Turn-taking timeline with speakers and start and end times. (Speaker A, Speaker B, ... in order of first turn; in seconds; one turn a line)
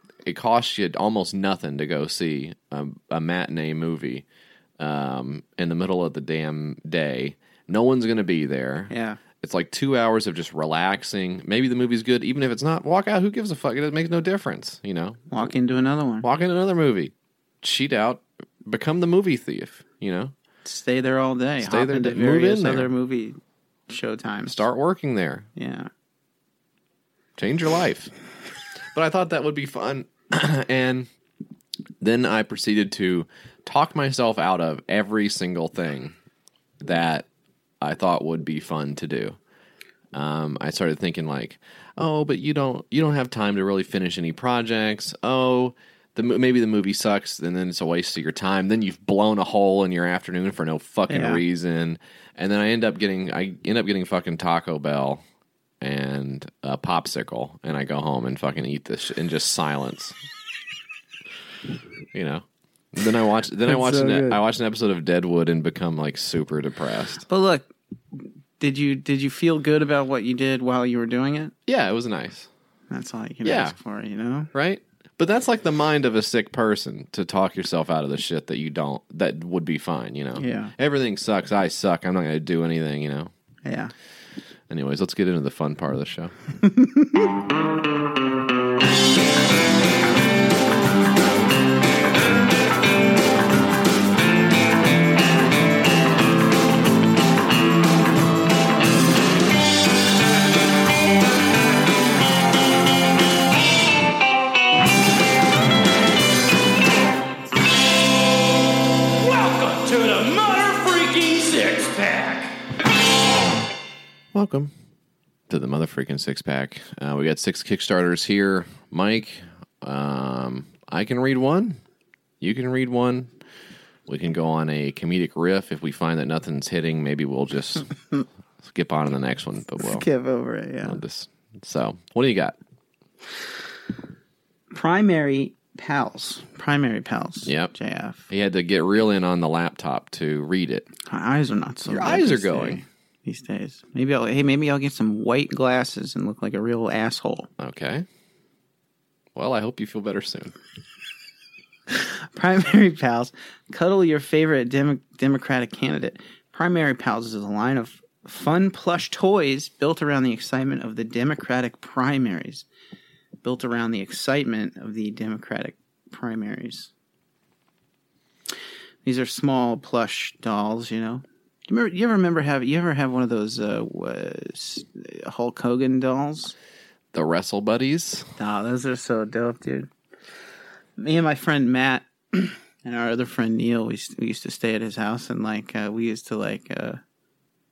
Speaker A: 0.2-4.2
Speaker A: 4.8-15.3
Speaker B: 8.9-9.2
Speaker B: 15.3-16.3
Speaker A: 16.2-20.3
Speaker B: 20.6-23.4
Speaker A: 21.6-22.9
Speaker B: 23.9-24.6
Speaker A: 24.5-25.5
Speaker B: 25.6-25.9
Speaker A: 27.4-28.1
Speaker A: 28.9-31.1
Speaker A: 32.0-36.1
Speaker A: 36.8-37.2
Speaker A: 37.8-39.4
Speaker A: 40.1-55.2
Speaker B: 51.1-51.4
Speaker A: 55.8-60.1
Speaker A: 62.1-67.2
Speaker B: 63.7-64.4
Speaker B: 67.3-71.5
Speaker A: 71.7-72.5
Speaker B: 72.9-74.5
Speaker A: 73.4-73.8
Speaker A: 74.5-83.3
Speaker B: 80.3-80.7
Speaker B: 83.6-83.9
Speaker A: 84.7-86.3
Speaker B: 86.6-87.3
Speaker C: 109.3-112.3
Speaker A: 114.3-114.7
Speaker A: 115.5-121.8
Speaker A: 122.4-123.3
Speaker A: 124.1-127.9
Speaker A: 128.6-130.1
Speaker B: 129.8-131.0
Speaker A: 130.8-132.6
Speaker B: 134.7-138.3
Speaker A: 137.4-137.7
Speaker A: 138.3-140.9
Speaker B: 141.1-147.5
Speaker A: 141.9-142.8
Speaker A: 147.6-148.1
Speaker A: 149.3-150.5
Speaker B: 152.0-162.7
Speaker B: 163.4-166.9
Speaker B: 169.0-176.5
Speaker A: 177.1-178.3
Speaker B: 178.4-179.9
Speaker B: 181.0-187.0